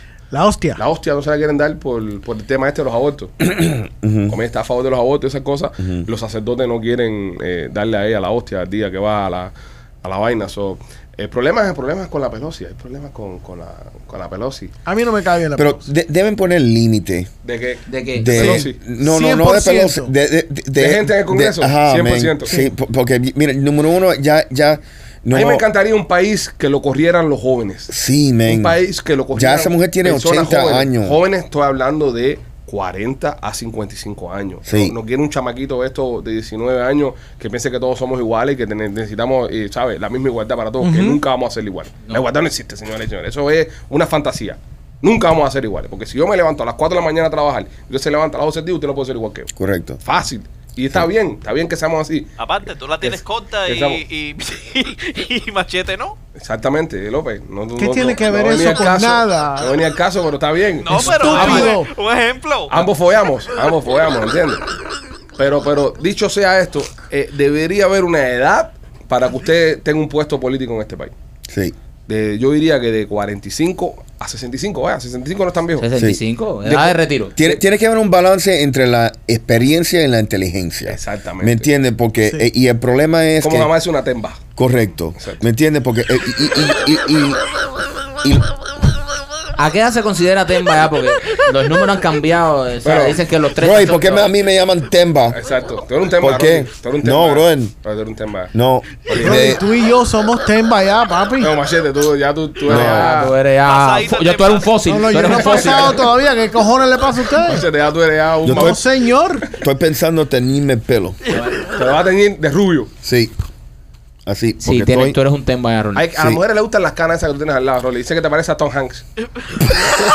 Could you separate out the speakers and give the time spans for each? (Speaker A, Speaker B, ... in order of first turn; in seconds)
Speaker A: 0.3-0.8, 14.8-15.8, 18.4-20.1, 40.8-41.2, 57.8-59.7, 60.9-61.9, 99.2-101.6, 104.9-107.7, 108.5-109.4
Speaker B: 0.8-3.3, 4.3-14.7, 17.4-18.9, 20.8-22.5, 25.3-27.9, 28.5-49.5, 50.0-52.3, 53.0-54.0, 56.4-61.7, 62.7-64.6, 65.4-71.1, 72.1-75.9, 76.6-77.5, 80.9-81.7, 83.4-84.4, 85.2-85.4, 92.8-93.2, 95.3-98.5, 99.0-99.6, 101.4-103.3, 105.2-106.0, 107.4-108.8, 111.7-112.9, 115.9-119.0
Speaker C: 3.5-4.3, 15.6-17.3, 18.2-25.6, 27.9-28.8, 29.3-31.2, 34.6-35.0, 49.5-50.0, 71.5-71.7, 76.0-76.2, 77.4-83.7, 84.5-87.5, 88.1-88.5, 93.6-95.4, 96.2-97.7, 98.5-99.6, 102.7-103.2, 108.4-108.8, 109.5-111.2, 113.0-113.3, 114.2-115.2
Speaker D: 17.9-18.6, 61.3-61.7, 75.8-77.3, 89.6-94.3, 102.7-106.0, 111.3-111.7, 114.6-116.0
Speaker E: 52.4-56.2, 60.8-62.8, 103.6-104.8